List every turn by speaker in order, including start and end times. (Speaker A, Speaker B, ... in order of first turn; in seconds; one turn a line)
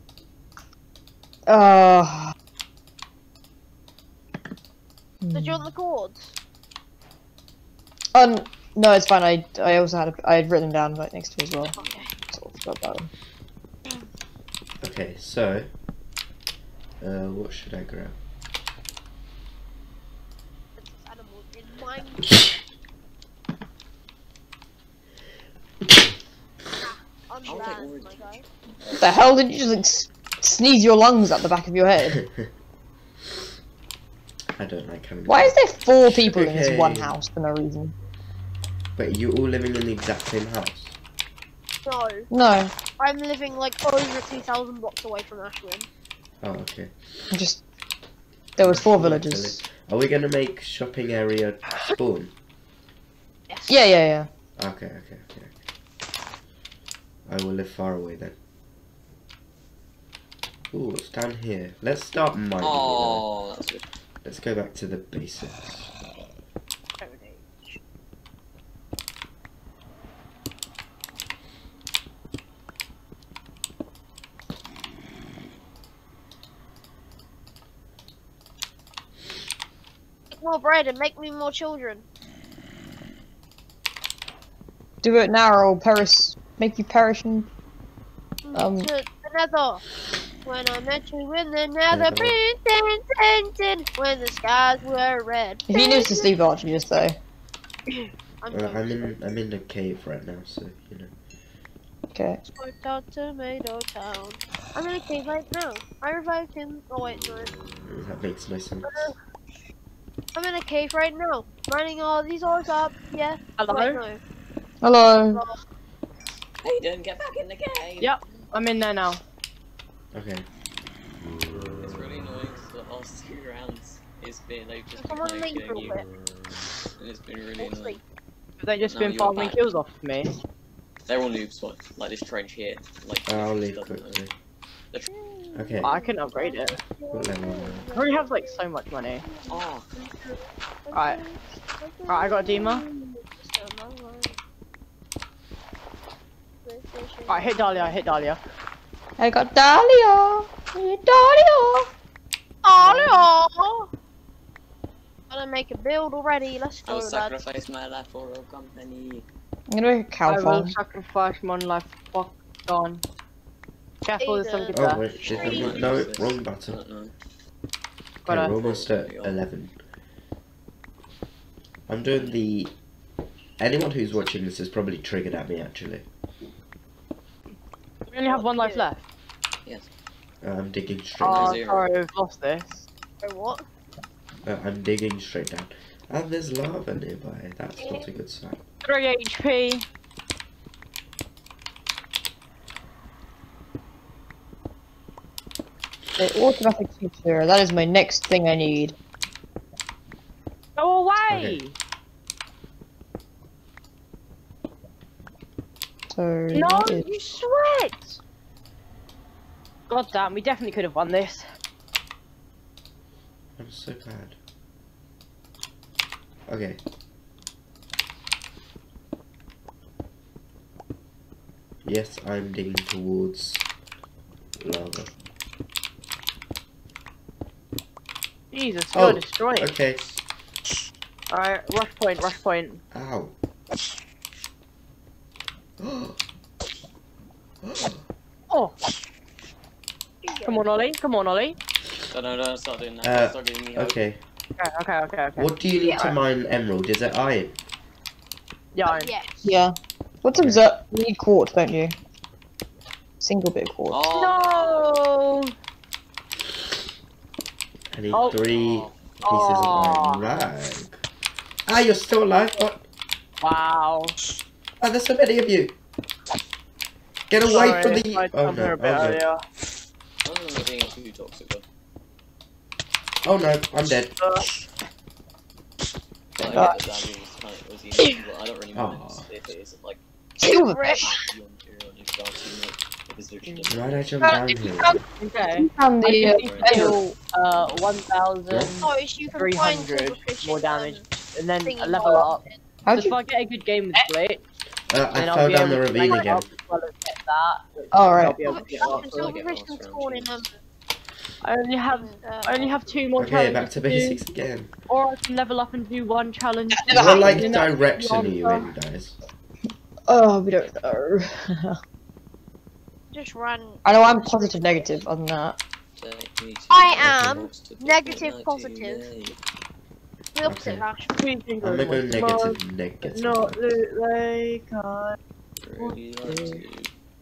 Speaker A: 1.5-2.3
Speaker A: 5.2-5.7
Speaker B: 5.3-6.3
Speaker A: 8.1-11.8
Speaker B: 11.7-12.1
Speaker A: 12.3-13.1
Speaker C: 14.8-15.7
Speaker C: 17.0-18.2
Speaker B: 20.8-22.4
Speaker B: 26.8-28.4
Speaker D: 27.4-29.0
Speaker A: 29.0-32.2
Speaker C: 32.1-32.5
Speaker C: 34.5-37.1
Speaker A: 35.2-37.9
Speaker C: 39.0-41.0
Speaker B: 41.8-42.3
Speaker A: 42.3-42.7
Speaker B: 43.0-45.9
Speaker C: 46.4-47.3
Speaker A: 47.3-47.6
Speaker A: 48.6-49.6
Speaker C: 48.6-52.3
Speaker B: 53.5-53.8
Speaker A: 53.7-54.3
Speaker C: 54.6-55.5
Speaker C: 57.2-58.4
Speaker C: 60.7-63.2
Speaker D: 62.6-63.9
Speaker C: 64.2-65.9
Speaker B: 67.0-67.6
Speaker B: 80.3-82.0
Speaker A: 85.0-87.5
Speaker B: 88.4-89.8
Speaker A: 88.5-88.9
Speaker B: 90.4-96.4
Speaker C: 91.9-92.4
Speaker A: 95.7-97.2
Speaker B: 97.9-99.2
Speaker C: 98.5-101.1
Speaker A: 102.1-102.4
Speaker B: 102.4-107.5
Speaker C: 107.8-109.1
Speaker B: 108.8-109.2
Speaker B: 110.3-114.2
Speaker E: 113.6-114.0
Speaker A: 114.8-115.4
Speaker B: 115.2-115.6
Speaker D: 116.6-118.5
Speaker E: 118.0-119.2
Speaker C: 120.1-120.5
Speaker D: 121.8-126.1
Speaker B: 125.0-126.0
Speaker D: 127.0-128.0
Speaker B: 127.6-128.0
Speaker E: 128.6-130.3
Speaker D: 128.8-129.6
Speaker D: 131.1-134.2
Speaker C: 133.3-134.3
Speaker B: 135.1-138.6
Speaker C: 135.5-135.9
Speaker E: 135.8-136.8
Speaker C: 137.1-137.9
Speaker E: 137.9-139.2
Speaker B: 139.2-144.4
Speaker D: 139.5-139.9
Speaker E: 140.9-141.2
Speaker E: 142.1-142.8
Speaker B: 146.6-148.1
Speaker E: 147.3-148.4
Speaker A: 149.2-151.9
Speaker B: 152.6-153.9
Speaker E: 152.8-153.3
Speaker B: 155.3-157.4
Speaker D: 156.8-159.2
Speaker A: 159.7-160.7
Speaker E: 160.2-163.0
Speaker E: 164.0-165.0
Speaker B: 164.2-166.0
Speaker C: 164.7-166.8
Speaker D: 165.2-167.1
Speaker E: 168.2-168.6
Speaker C: 168.2-169.8
Speaker D: 168.5-169.4
Speaker C: 171.9-172.7
Speaker D: 172.1-172.4
Speaker C: 173.6-176.1
Speaker E: 178.1-179.0
Speaker B: 178.2-178.9
Speaker C: 180.4-181.6
Speaker E: 181.2-182.8
Speaker D: 181.2-181.9
Speaker B: 183.2-183.7
Speaker C: 184.4-188.6
Speaker B: 187.8-188.0
Speaker E: 188.8-189.8
Speaker A: 196.2-198.9
Speaker E: 200.8-201.7
Speaker C: 201.3-201.6
Speaker A: 206.1-207.1
Speaker E: 206.5-208.2
Speaker E: 209.9-211.4
Speaker C: 213.6-214.4
Speaker C: 216.5-216.8
Speaker C: 221.8-223.7
Speaker C: 224.6-225.1
Speaker E: 228.5-229.7
Speaker C: 228.9-230.0
Speaker E: 231.3-232.8
Speaker C: 232.9-233.3
Speaker C: 235.8-236.2
Speaker C: 237.6-238.0
Speaker E: 238.5-238.7
Speaker B: 240.2-240.7
Speaker E: 240.4-241.6
Speaker D: 242.1-244.0
Speaker C: 243.0-244.2
Speaker E: 244.6-246.1
Speaker C: 245.3-247.6
Speaker E: 248.7-249.1
Speaker B: 248.8-249.6
Speaker A: 249.4-251.9
Speaker C: 250.3-250.6
Speaker A: 253.2-254.0
Speaker D: 253.9-254.9
Speaker E: 254.1-255.5
Speaker C: 257.9-261.0
Speaker E: 258.1-258.4
Speaker D: 258.2-259.6
Speaker E: 259.2-260.2
Speaker C: 261.6-262.8
Speaker E: 263.4-264.1
Speaker C: 264.8-265.8
Speaker C: 267.3-269.2
Speaker E: 267.4-269.4
Speaker D: 270.2-271.6
Speaker C: 273.2-274.1
Speaker E: 274.2-274.5
Speaker D: 276.4-280.0
Speaker A: 276.4-276.8
Speaker C: 278.7-279.4
Speaker A: 280.4-281.1
Speaker B: 280.4-281.1
Speaker D: 280.8-284.1
Speaker E: 283.4-283.7
Speaker C: 283.7-284.9
Speaker A: 284.2-287.1
Speaker E: 285.2-294.4
Speaker D: 286.3-287.9
Speaker C: 288.5-288.7
Speaker B: 288.8-291.1
Speaker B: 291.6-292.6
Speaker A: 292.9-293.1
Speaker C: 294.9-296.5
Speaker E: 295.1-299.4
Speaker A: 297.9-298.5
Speaker B: 298.4-300.6
Speaker D: 298.5-300.5
Speaker E: 301.4-304.2
Speaker B: 301.9-303.0
Speaker C: 303.2-304.7
Speaker E: 304.9-308.7
Speaker A: 306.7-307.6
Speaker C: 306.9-309.2
Speaker A: 310.1-311.8
Speaker B: 313.1-315.1
Speaker A: 313.8-315.6
Speaker D: 315.9-319.4
Speaker B: 316.7-319.1
Speaker C: 317.0-317.5
Speaker B: 320.3-321.2
Speaker C: 320.4-320.9
Speaker E: 321.1-325.2
Speaker C: 321.6-323.8
Speaker D: 325.6-326.9
Speaker E: 325.8-326.6